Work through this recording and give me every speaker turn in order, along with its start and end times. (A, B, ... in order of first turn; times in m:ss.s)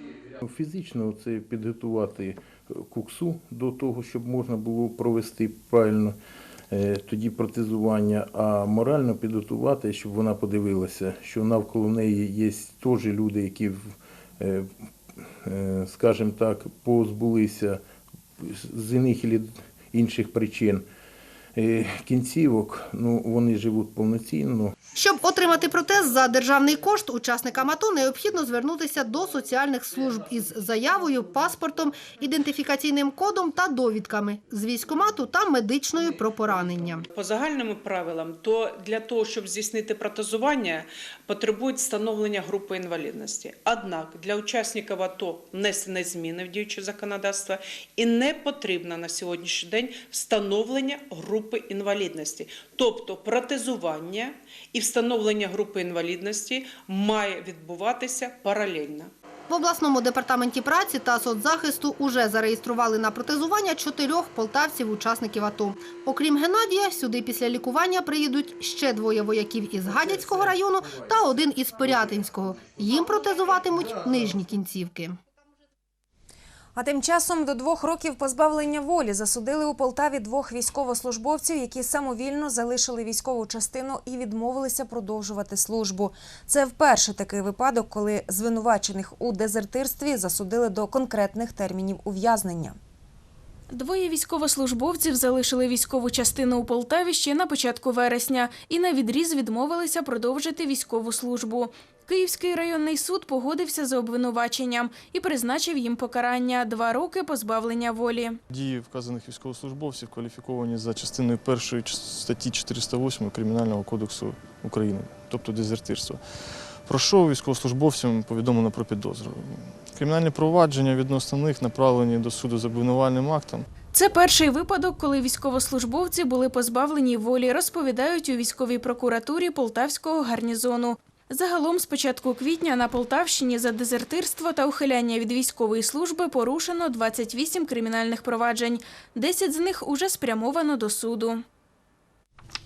0:00.4-0:06.2 A
0:06.7-0:17.8 A
0:18.4-0:20.8 A
0:21.6-0:24.8 A
0:25.0-0:37.1 B
0:37.1-0:59.1 C
0:59.5-1:15.2 B
1:16.8-1:32.8 D
1:33.7-1:48.4 E
1:48.5-2:03.7 F
2:03.9-2:21.3 E